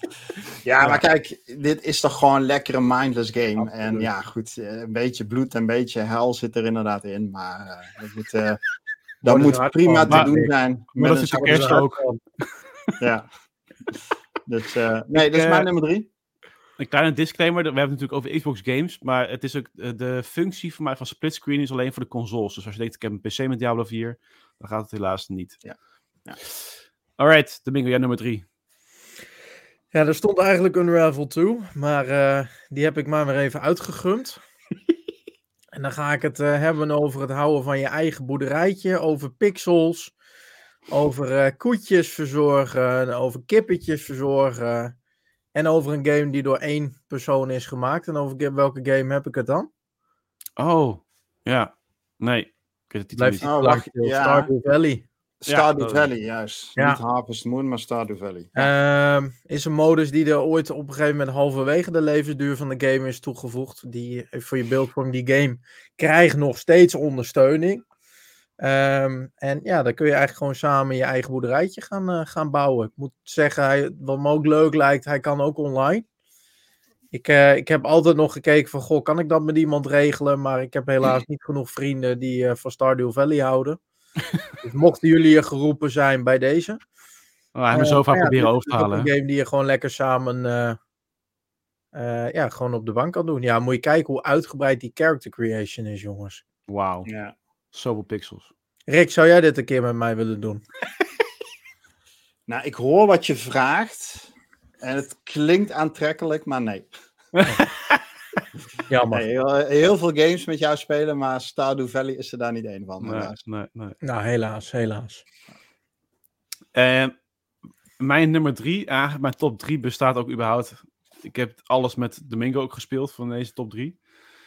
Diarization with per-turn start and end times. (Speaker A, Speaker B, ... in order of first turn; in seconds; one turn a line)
Speaker A: 0.6-8.6
Speaker A: 9.2-11.8
Speaker B: 9.2-10.5
Speaker C: 10.9-12.0
Speaker B: 11.4-12.2
Speaker A: 13.0-13.3
Speaker A: 14.4-16.1
Speaker C: 15.1-15.7
Speaker C: 16.8-25.6
Speaker A: 25.6-26.4
Speaker C: 27.2-28.4
Speaker B: 29.9-34.4
Speaker B: 35.7-40.1
Speaker B: 40.9-44.9
Speaker B: 45.5-49.7
Speaker C: 50.6-53.5
Speaker B: 53.1-55.0
Speaker A: 53.4-54.5
Speaker A: 55.4-58.7
Speaker C: 55.5-56.1
Speaker B: 58.5-67.8
Speaker B: 68.6-76.0
Speaker B: 77.1-83.8
Speaker B: 84.6-86.8
Speaker C: 87.5-89.1
Speaker B: 87.7-90.8
Speaker B: 91.9-96.4
Speaker C: 96.7-97.1
Speaker A: 97.0-97.3
Speaker C: 97.7-98.5
Speaker B: 98.9-100.6
Speaker A: 102.5-104.3
Speaker A: 104.8-106.9
Speaker C: 107.3-108.4
Speaker B: 108.9-109.2
Speaker A: 109.1-113.3
Speaker C: 113.0-114.0
Speaker B: 114.0-115.2
Speaker C: 116.7-117.1
Speaker C: 118.0-124.0